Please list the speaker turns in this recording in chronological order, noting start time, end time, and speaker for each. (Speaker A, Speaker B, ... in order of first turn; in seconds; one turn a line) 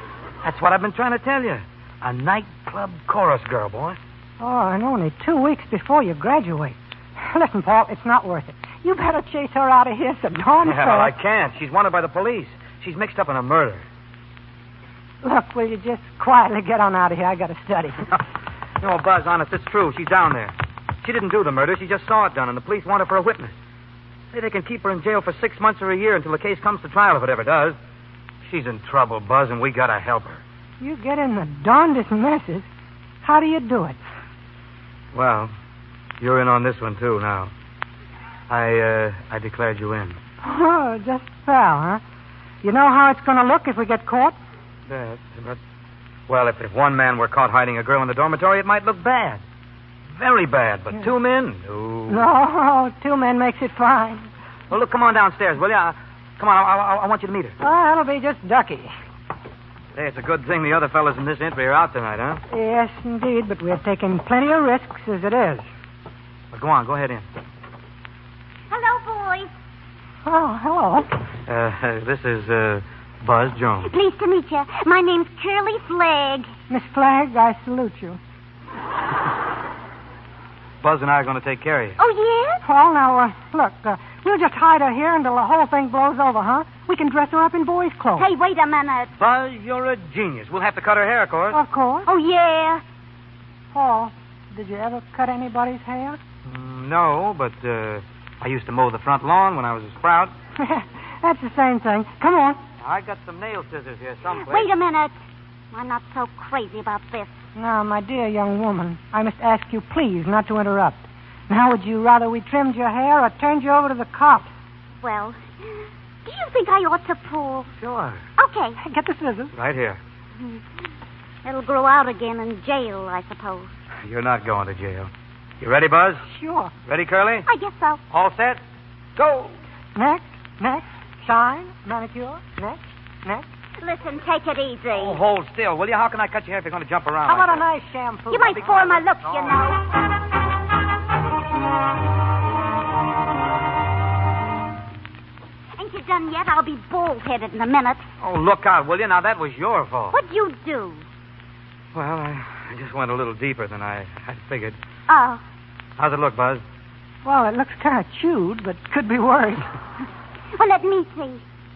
Speaker A: 0.4-4.0
Speaker B: 4.4-11.1
Speaker A: 10.6-13.8
Speaker B: 15.2-18.0
Speaker A: 18.8-23.6
Speaker A: 24.3-27.8
Speaker A: 28.5-30.4
Speaker B: 30.8-32.7
Speaker B: 33.2-34.0
Speaker A: 35.1-35.5
Speaker A: 36.2-37.5
Speaker A: 38.5-40.2
Speaker B: 40.4-42.0
Speaker B: 42.6-44.4
Speaker A: 44.9-45.6
Speaker A: 46.3-49.4
Speaker A: 50.2-52.3
Speaker B: 52.1-54.3
Speaker A: 54.7-57.5
Speaker B: 57.6-58.9
Speaker A: 60.0-62.4
Speaker B: 62.5-65.7
Speaker A: 66.5-67.3
Speaker C: 68.7-69.5
Speaker B: 70.2-71.1
Speaker A: 71.5-73.9
Speaker C: 73.9-76.5
Speaker B: 76.7-78.2
Speaker A: 80.8-82.0
Speaker C: 82.0-82.6
Speaker B: 82.6-88.3
Speaker C: 88.2-89.1
Speaker A: 89.2-91.6
Speaker B: 91.5-92.1
Speaker C: 92.1-92.8
Speaker B: 93.7-96.2
Speaker A: 96.5-100.3
Speaker B: 100.6-102.6
Speaker A: 102.8-104.7
Speaker C: 104.4-105.1
Speaker C: 105.7-107.4
Speaker B: 107.6-114.5
Speaker C: 115.0-115.4
Speaker C: 116.2-117.7
Speaker A: 117.8-118.2
Speaker C: 118.4-118.8
Speaker B: 118.8-119.5
Speaker A: 119.5-120.0
Speaker C: 121.4-123.7
Speaker A: 124.0-125.1
Speaker A: 125.6-126.2
Speaker B: 126.3-126.7
Speaker A: 126.9-127.5
Speaker C: 127.5-128.0
Speaker A: 128.1-128.6
Speaker A: 129.2-129.5
Speaker B: 129.9-133.4
Speaker C: 133.8-135.2
Speaker A: 134.9-137.6
Speaker B: 137.2-139.0
Speaker C: 138.3-139.8
Speaker C: 145.8-148.0
Speaker A: 148.2-150.2
Speaker C: 150.1-151.0
Speaker A: 151.9-154.8
Speaker C: 155.1-155.4
Speaker A: 156.0-156.6
Speaker B: 157.2-159.7
Speaker C: 160.6-161.4